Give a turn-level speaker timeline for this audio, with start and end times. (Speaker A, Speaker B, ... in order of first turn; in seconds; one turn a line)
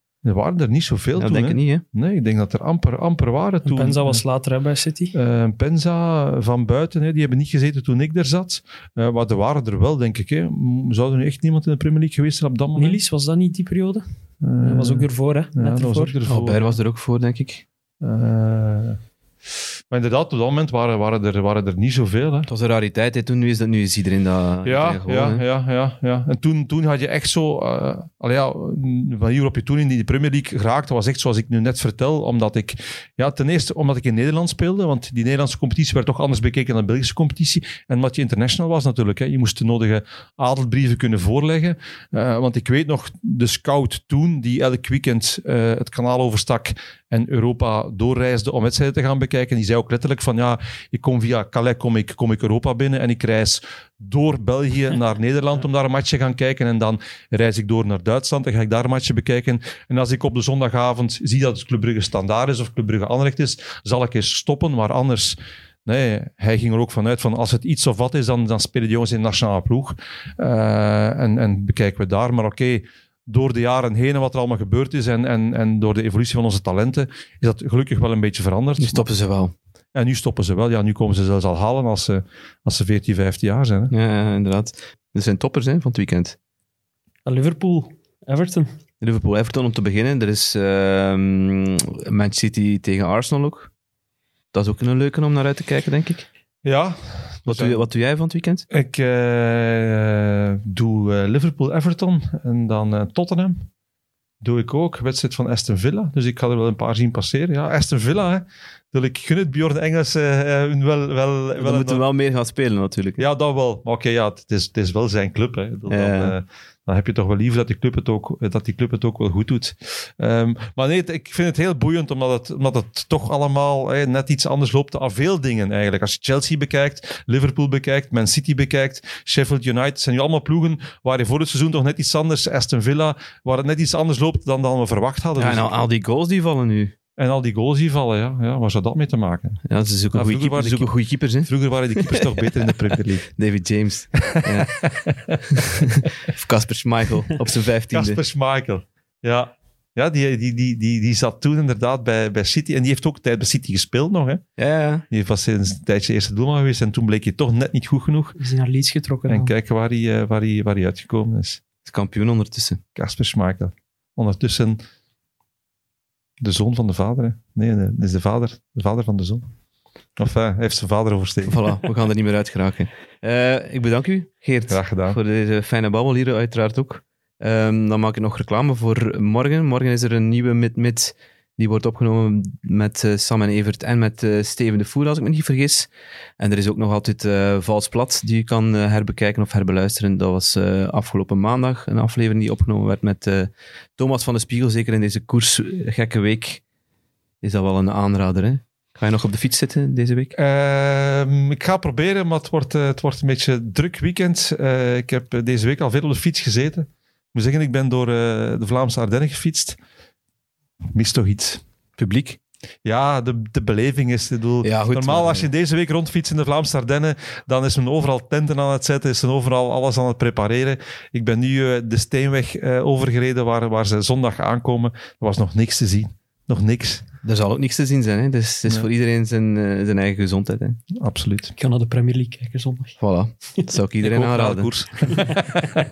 Speaker A: 0.2-4.2
Speaker B: 1.2-1.8
Speaker C: 3.6-5.2
Speaker A: 5.1-13.0
Speaker C: 12.8-14.0
Speaker A: 14.4-16.8
Speaker C: 14.6-16.1
Speaker B: 16.3-17.6
Speaker A: 18.0-19.0
Speaker A: 19.9-22.5
Speaker B: 22.5-25.4
Speaker A: 24.6-79.1
Speaker B: 78.8-79.5
Speaker A: 80.0-83.9
Speaker B: 83.9-86.4
Speaker C: 87.3-88.7
Speaker B: 89.0-93.7
Speaker B: 94.5-96.3
Speaker A: 96.7-97.8
Speaker B: 97.5-98.7
Speaker A: 98.7-103.7
Speaker A: 104.4-112.0
Speaker B: 111.6-113.2
Speaker A: 113.2-135.7
Speaker B: 115.9-116.3
Speaker B: 135.4-136.9
Speaker A: 137.2-139.6
Speaker B: 139.7-144.9
Speaker A: 140.1-140.9
Speaker A: 141.4-143.3
Speaker A: 144.3-145.4
Speaker B: 145.4-148.2
Speaker A: 147.9-154.4
Speaker B: 154.6-155.1
Speaker A: 155.1-158.4
Speaker C: 158.4-159.5
Speaker A: 159.3-161.6
Speaker B: 161.8-162.8
Speaker A: 163.0-164.8
Speaker A: 166.4-169.5
Speaker A: 170.2-171.7
Speaker B: 171.5-196.6
Speaker A: 174.7-175.2
Speaker B: 197.4-200.3
Speaker A: 200.4-209.8
Speaker A: 210.9-211.6
Speaker B: 212.0-212.4
Speaker A: 212.8-227.0
Speaker B: 214.6-215.5
Speaker B: 227.2-230.8
Speaker A: 230.9-231.5
Speaker C: 231.6-233.0
Speaker B: 233.0-234.9
Speaker A: 234.0-235.6
Speaker C: 235.1-235.4